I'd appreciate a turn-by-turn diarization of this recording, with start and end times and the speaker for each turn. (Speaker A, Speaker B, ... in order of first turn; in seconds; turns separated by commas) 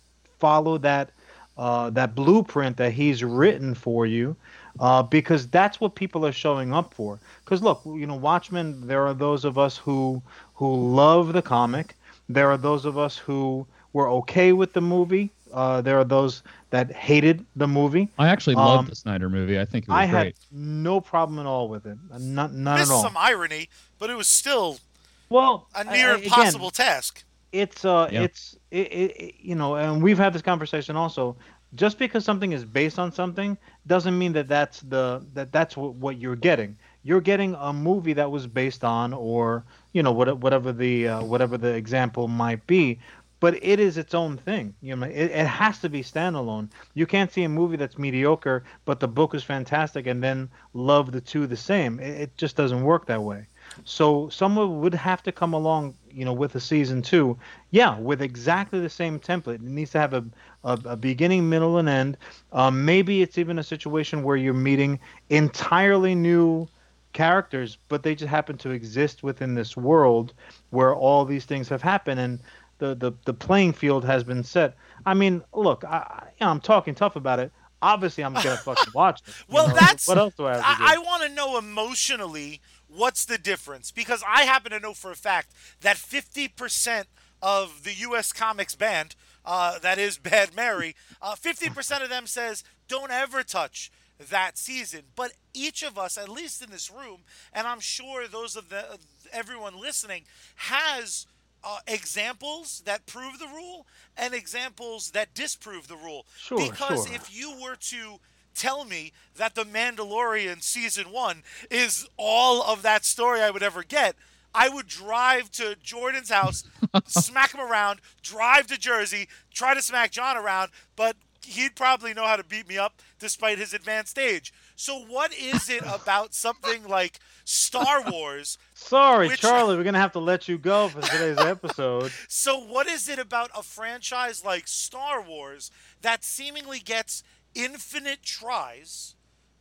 Speaker A: 0.4-18.9, Speaker B: 18.2-20.3, Speaker A: 19.9-23.1, Speaker C: 22.7-24.8, Speaker A: 25.3-26.7, Speaker C: 25.7-27.2, Speaker A: 27.5-81.0, Speaker C: 79.5-128.6, Speaker A: 106.4-107.2, Speaker B: 116.9-117.2, Speaker A: 128.8-132.2, Speaker C: 129.2-129.6, Speaker C: 131.1-131.4, Speaker C: 132.2-139.1